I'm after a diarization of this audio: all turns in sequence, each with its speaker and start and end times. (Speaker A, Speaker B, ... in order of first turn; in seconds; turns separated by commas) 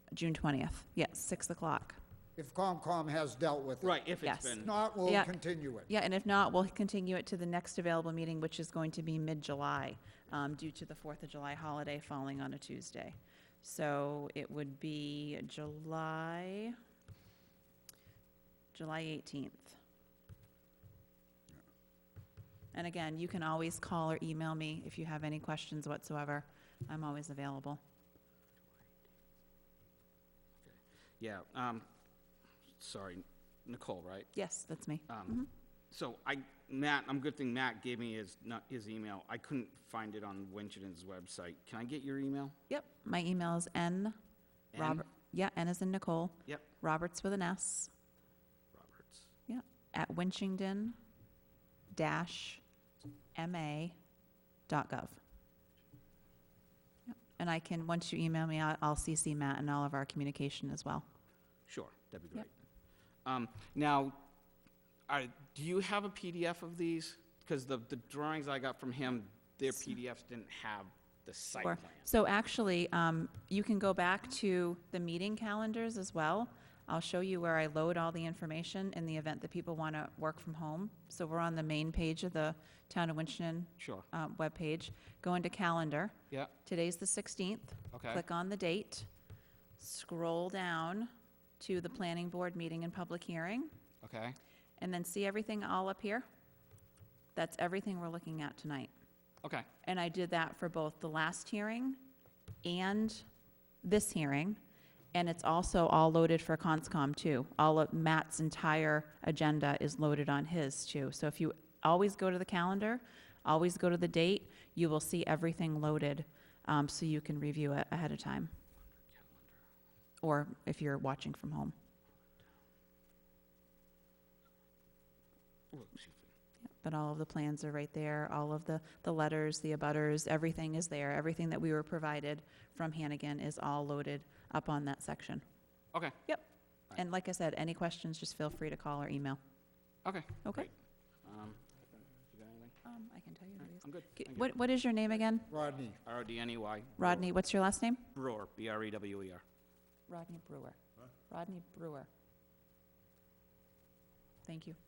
Speaker A: 0.1-2.0, Speaker B: 2.4-5.9, Speaker C: 3.8-4.8, Speaker A: 4.2-5.3, Speaker A: 5.9-16.8, Speaker A: 18.7-19.8, Speaker A: 22.7-27.8, Speaker C: 30.6-31.9, Speaker C: 32.8-34.3, Speaker A: 34.3-35.5, Speaker C: 35.1-42.6, Speaker A: 42.7-44.2, Speaker C: 44.7-45.0, Speaker A: 44.8-47.9, Speaker C: 48.7-49.3, Speaker A: 49.5-51.0, Speaker A: 51.9-52.6, Speaker A: 53.4-54.0, Speaker A: 54.7-55.2, Speaker A: 57.4-61.0, Speaker C: 61.7-62.5, Speaker C: 63.2-64.2, Speaker C: 65.1-72.1, Speaker A: 71.6-89.1, Speaker C: 83.8-84.1, Speaker C: 87.9-88.2, Speaker A: 89.8-93.7, Speaker C: 94.0-94.4, Speaker A: 94.8-96.2, Speaker A: 97.3-98.9, Speaker A: 99.8-102.0, Speaker A: 102.6-103.2, Speaker A: 103.8-104.6, Speaker A: 105.1-118.5, Speaker C: 119.2-119.4, Speaker A: 120.2-121.7, Speaker C: 125.7-126.3, Speaker A: 126.8-135.4, Speaker A: 136.3-139.4, Speaker C: 140.1-140.7, Speaker A: 140.4-140.7, Speaker C: 141.2-142.7, Speaker A: 142.8-145.5, Speaker C: 143.6-144.5, Speaker B: 145.5-146.0, Speaker C: 146.0-147.2, Speaker A: 147.0-148.1, Speaker C: 148.1-149.4, Speaker A: 150.1-152.1, Speaker A: 154.4-154.8